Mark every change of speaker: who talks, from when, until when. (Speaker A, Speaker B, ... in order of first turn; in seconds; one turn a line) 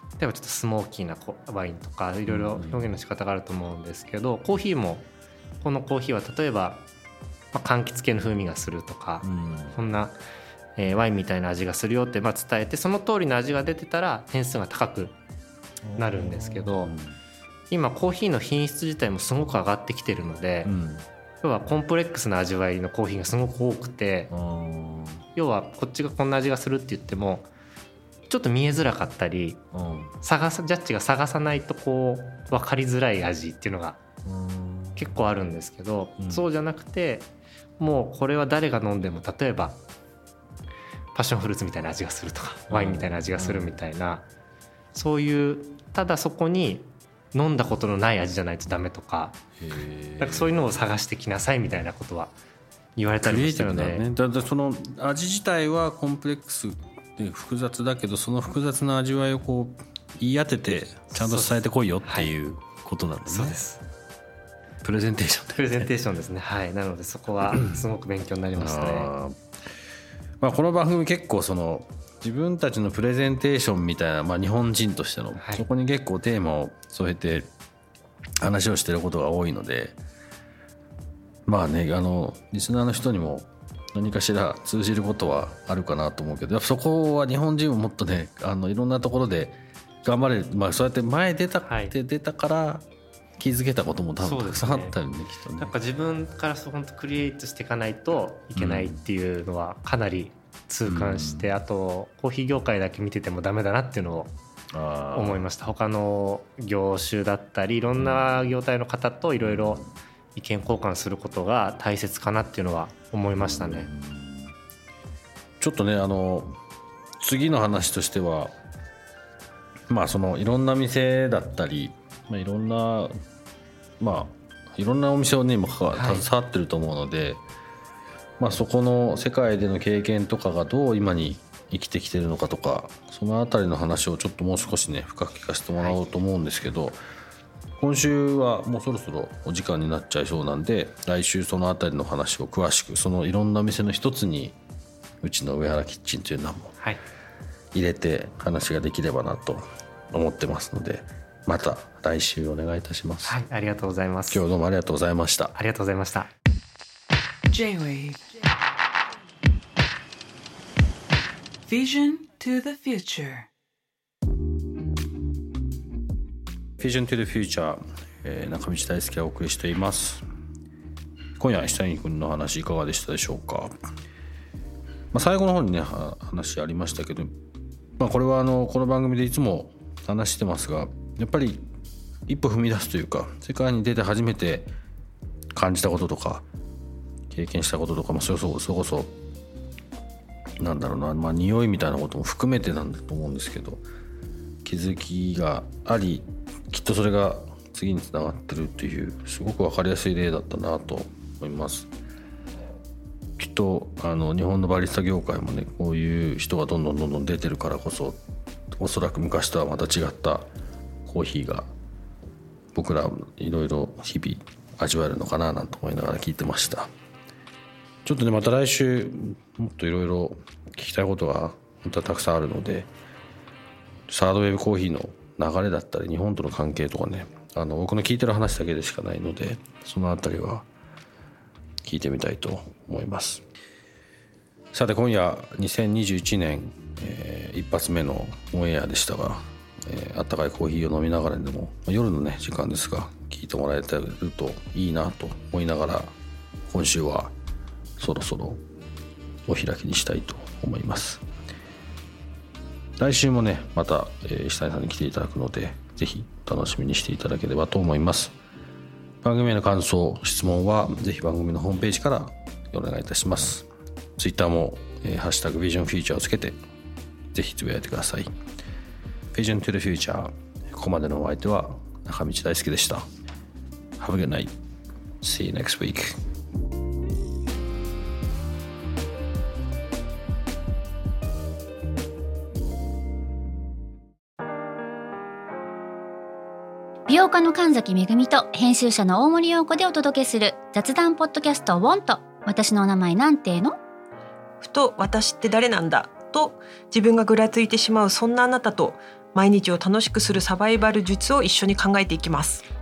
Speaker A: 0.2-5.1
Speaker B: 2.3-2.9
Speaker A: 5.6-6.8
Speaker A: 7.5-10.1
Speaker B: 9.2-9.8
Speaker A: 10.8-15.1
Speaker B: 15.8-17.2
Speaker A: 16.0-16.9
Speaker A: 17.7-20.7
Speaker B: 20.6-21.0
Speaker A: 21.4-24.3
Speaker B: 24.3-25.2
Speaker A: 25.3-27.5
Speaker A: 28.3-29.6
Speaker B: 29.7-30.1
Speaker A: 30.2-34.0
Speaker B: 34.2-35.1
Speaker A: 35.0-37.3
Speaker B: 36.2-36.5
Speaker A: 37.8-39.8
Speaker A: 41.1-44.2
Speaker B: 42.7-43.8
Speaker A: 44.9-49.4
Speaker B: 49.6-50.8
Speaker A: 50.2-52.3
Speaker A: 53.0-54.0
Speaker B: 53.2-63.6
Speaker A: 61.1-62.3
Speaker A: 63.3-63.8
Speaker B: 64.8-65.9
Speaker A: 65.5-69.1
Speaker B: 67.5-67.8
Speaker B: 68.5-69.4
Speaker B: 70.4-77.5
Speaker A: 75.4-75.7
Speaker B: 78.4-80.0
Speaker B: 81.5-92.8
Speaker A: 91.6-91.9
Speaker B: 93.4-95.7
Speaker A: 94.2-94.9
Speaker A: 95.6-104.3
Speaker B: 98.5-99.0
Speaker B: 100.8-101.5
Speaker B: 104.7-105.4
Speaker A: 105.1-109.8
Speaker B: 108.0-108.5
Speaker B: 109.4-109.9
Speaker A: 110.3-113.9
Speaker B: 113.3-114.5
Speaker B: 115.6-116.6
Speaker B: 117.2-118.5
Speaker B: 119.9-123.1
Speaker B: 124.0-127.4
Speaker A: 125.9-126.2
Speaker B: 128.4-137.0
Speaker B: 137.8-144.6
Speaker B: 145.2-146.8
Speaker B: 147.7-153.4
Speaker A: 153.2-154.4
Speaker B: 154.3-155.6
Speaker A: 155.6-156.3
Speaker C: 157.5-158.2
Speaker C: 161.7-163.5
Speaker B: 166.8-170.2
Speaker B: 171.4-173.7
Speaker B: 175.1-177.3
Speaker B: 178.0-181.7
Speaker B: 182.3-184.7
Speaker B: 185.5-186.4
Speaker B: 187.3-189.1
Speaker B: 190.6-193.8
Speaker B: 194.6-201.9
Speaker B: 203.4-208.2
Speaker B: 208.7-210.5
Speaker B: 211.1-211.7
Speaker B: 212.7-216.9
Speaker B: 218.0-222.9
Speaker B: 224.1-230.7
Speaker B: 231.8-233.4
Speaker B: 234.7-246.1
Speaker B: 246.7-247.3
Speaker B: 248.0-248.6
Speaker B: 249.4-251.2
Speaker B: 253.0-258.3
Speaker B: 259.2-266.6
Speaker B: 267.3-268.3
Speaker B: 269.3-273.1
Speaker B: 274.0-274.5
Speaker B: 275.2-276.2
Speaker D: 287.1-293.8
Speaker E: 294.6-302.6